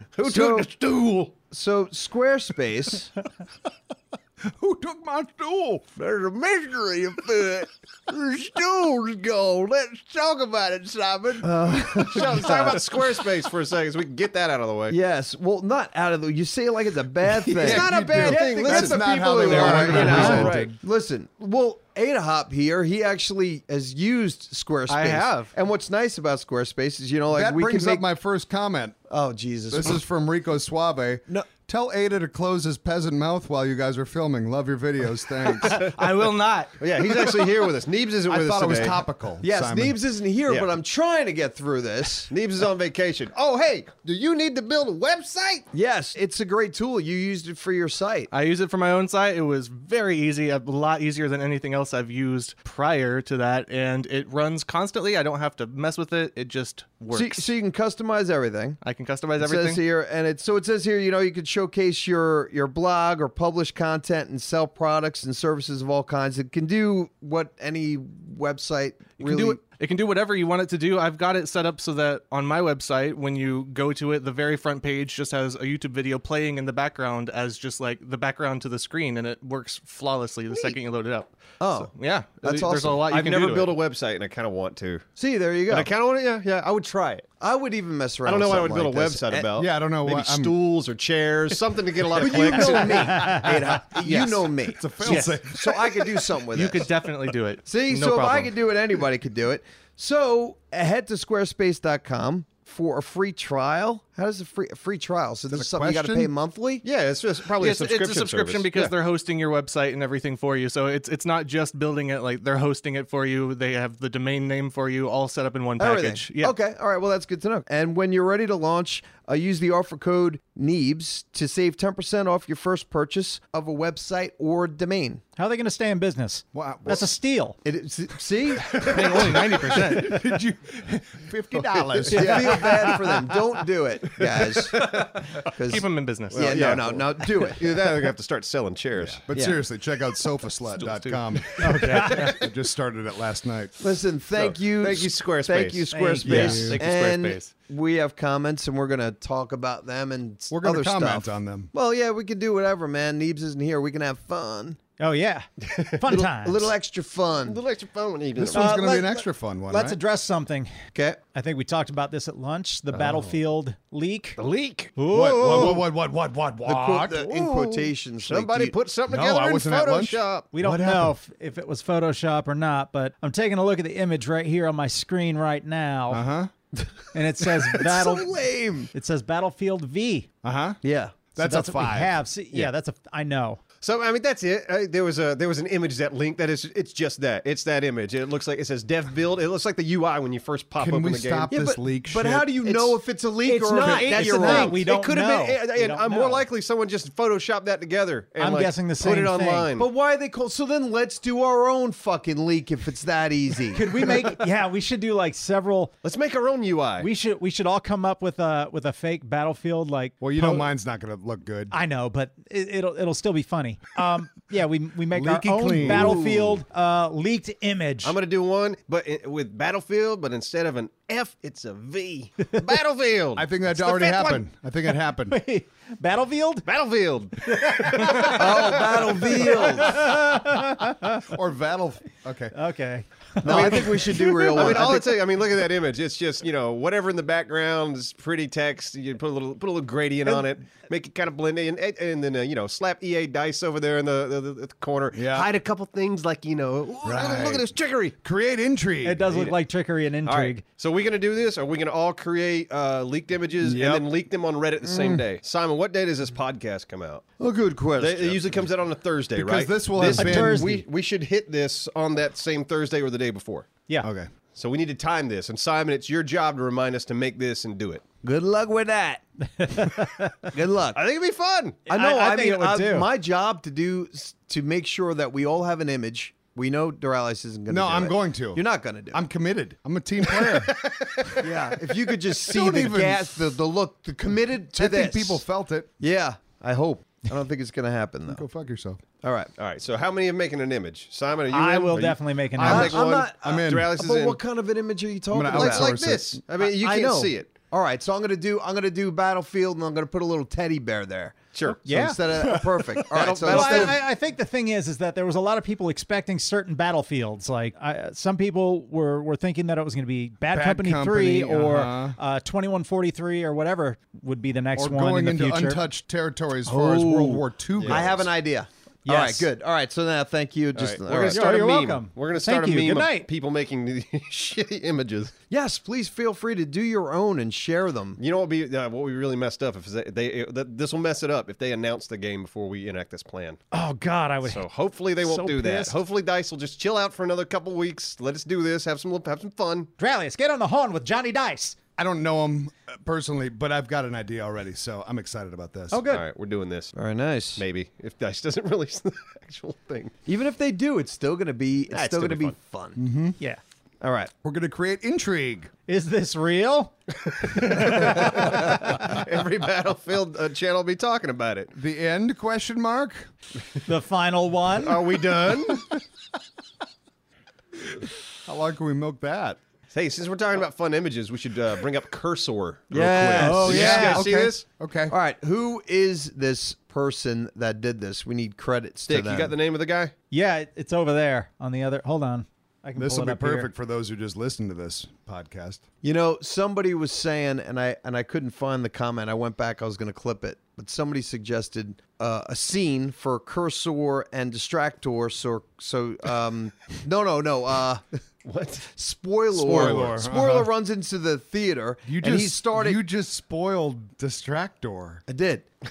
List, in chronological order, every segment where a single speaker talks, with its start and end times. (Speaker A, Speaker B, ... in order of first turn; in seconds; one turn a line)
Speaker A: 0.2-0.7
Speaker B: 0.2-1.3
Speaker A: 1.5-3.1
Speaker B: 4.5-5.9
Speaker A: 6.0-9.5
Speaker C: 10.7-11.3
Speaker B: 10.9-12.4
Speaker A: 11.4-12.8
Speaker C: 12.0-15.0
Speaker A: 14.9-28.0
Speaker C: 17.5-20.7
Speaker B: 17.6-20.8
Speaker D: 19.9-20.5
Speaker E: 20.0-20.7
Speaker E: 24.9-25.5
Speaker B: 27.3-29.0
Speaker A: 29.1-30.0
Speaker B: 29.7-35.9
Speaker E: 35.7-36.8
Speaker C: 36.8-39.0
Speaker B: 38.3-40.0
Speaker A: 39.4-42.3
Speaker C: 42.3-45.7
Speaker A: 45.7-48.3
Speaker E: 48.3-57.5
Speaker A: 57.1-58.8
Speaker E: 58.8-59.8
Speaker A: 59.4-69.6
Speaker E: 69.2-83.8
Speaker A: 80.5-80.8
Speaker A: 81.6-83.0
Speaker C: 83.0-85.1
Speaker A: 85.2-85.9
Speaker C: 85.7-87.3
Speaker A: 87.4-89.5
Speaker C: 88.2-93.4
Speaker B: 89.5-90.5
Speaker A: 92.1-96.9
Speaker E: 92.5-93.4
Speaker D: 93.1-93.5
Speaker B: 93.8-95.9
Speaker E: 93.9-94.5
Speaker E: 95.0-95.4
Speaker E: 96.5-98.5
Speaker A: 97.7-106.8
Speaker B: 105.5-106.3
Speaker C: 106.8-108.9
Speaker E: 107.6-116.5
Speaker A: 115.8-125.2
Speaker D: 125.4-127.6
Speaker B: 126.5-127.1
Speaker A: 127.6-130.0
Speaker B: 128.6-132.9
Speaker D: 132.1-133.3
Speaker A: 132.1-138.0
Speaker C: 134.7-135.1
Speaker E: 135.6-136.8
Speaker C: 136.3-139.2
Speaker B: 139.0-143.9
Speaker A: 139.3-139.6
Speaker E: 140.8-141.6
Speaker D: 141.6-142.4
Speaker C: 141.8-142.3
Speaker A: 143.8-154.8
Speaker C: 144.3-145.9
Speaker D: 145.9-146.8
Speaker E: 146.2-147.5
Speaker B: 146.3-146.8
Speaker B: 150.5-151.7
Speaker D: 155.0-156.7
Speaker A: 156.1-157.6
Speaker C: 157.4-158.8
Speaker B: 158.4-160.0
Speaker D: 158.5-160.8
Speaker A: 160.9-161.2
Speaker D: 161.3-164.4
Speaker C: 164.4-165.8
Speaker D: 165.0-165.8
Speaker B: 165.1-167.4
Speaker A: 166.6-168.8
Speaker C: 167.3-170.5
Speaker B: 169.1-171.1
Speaker D: 170.5-176.2
Speaker B: 176.1-176.5
Speaker D: 177.1-178.3
Speaker A: 177.6-178.9
Speaker D: 178.9-180.3
Speaker B: 180.4-180.8
Speaker A: 180.8-181.2
Speaker B: 181.3-182.2
Speaker D: 181.4-183.6
Speaker C: 183.8-191.5
Speaker B: 190.8-192.5
Speaker A: 191.5-194.8
Speaker C: 193.5-199.9
Speaker D: 193.5-196.5
Speaker D: 198.4-199.7
Speaker A: 199.8-204.1
Speaker D: 203.7-205.9
Speaker C: 206.0-207.1
Speaker D: 207.0-210.7
Speaker B: 210.2-211.8
Speaker D: 211.7-218.2
Speaker B: 215.1-216.2
Speaker C: 215.8-216.6
Speaker C: 218.0-223.5
Speaker B: 223.4-225.4
Speaker D: 223.7-224.5
Speaker D: 225.3-226.7
Speaker C: 226.7-229.6
Speaker D: 227.5-231.2
Speaker A: 228.2-230.1
Speaker B: 231.2-232.6
Speaker D: 232.5-234.8
Speaker A: 233.4-235.2
Speaker C: 233.4-248.2
Speaker B: 245.1-245.5
Speaker B: 247.0-249.5
Speaker D: 249.0-250.6
Speaker C: 249.3-249.6
Speaker C: 250.2-257.3
Speaker B: 253.6-254.1
Speaker B: 254.9-255.2
Speaker A: 257.4-258.6
Speaker C: 258.0-263.7
Speaker B: 259.4-260.8
Speaker D: 260.1-260.8
Speaker B: 264.0-264.3
Speaker C: 264.6-268.0
Speaker A: 268.2-269.2
Speaker D: 269.6-270.5
Speaker A: 270.5-271.0
Speaker C: 270.9-271.8
Speaker A: 271.9-279.2
Speaker D: 271.9-273.1
Speaker B: 277.7-280.8
Speaker C: 280.4-281.4
Speaker A: 281.4-285.4
Speaker B: 282.5-283.5
Speaker B: 284.7-285.9
Speaker A: 286.0-288.4
Speaker B: 288.3-289.0
Speaker A: 289.2-289.5
Speaker C: 289.6-294.4
Speaker D: 291.5-292.9
Speaker B: 292.6-293.9
Speaker A: 292.6-295.9
Speaker B: 295.3-296.4
Speaker C: 295.4-297.5
Speaker A: 296.6-304.0
Speaker C: 301.5-301.8
Speaker D: 301.7-315.8
Speaker C: 303.1-303.9
Speaker B: 310.5-312.2
Speaker B: 314.8-318.3
Speaker A: 316.7-321.4
Speaker C: 317.8-318.1
Speaker D: 319.1-319.5
Speaker C: 320.7-325.3
Speaker D: 321.2-323.3
Speaker A: 325.5-328.2
Speaker C: 328.2-333.6
Speaker D: 333.7-334.6
Speaker C: 334.4-339.9
Speaker D: 335.2-336.0
Speaker D: 340.0-341.8
Speaker B: 342.0-346.1
Speaker D: 345.9-346.2
Speaker C: 346.1-346.9
Speaker A: 346.9-347.6
Speaker C: 347.6-350.1
Speaker A: 350.3-353.0
Speaker C: 351.9-352.6
Speaker B: 353.0-353.4
Speaker A: 354.0-354.3
Speaker B: 354.4-355.7
Speaker D: 355.9-356.9
Speaker C: 357.4-361.7
Speaker D: 357.5-358.9
Speaker B: 361.7-363.3
Speaker D: 363.9-365.0
Speaker C: 364.8-365.9
Speaker B: 365.5-365.8
Speaker B: 368.5-369.6
Speaker C: 369.9-374.6
Speaker A: 372.9-374.0
Speaker D: 373.4-374.3
Speaker B: 373.6-375.2
Speaker A: 375.1-379.5
Speaker C: 379.1-380.1
Speaker D: 380.3-383.7
Speaker B: 383.0-385.8
Speaker A: 386.0-398.0
Speaker C: 398.4-398.9
Speaker A: 398.9-403.0
Speaker B: 399.5-400.7
Speaker C: 399.6-400.1
Speaker B: 402.1-405.2
Speaker A: 405.3-405.7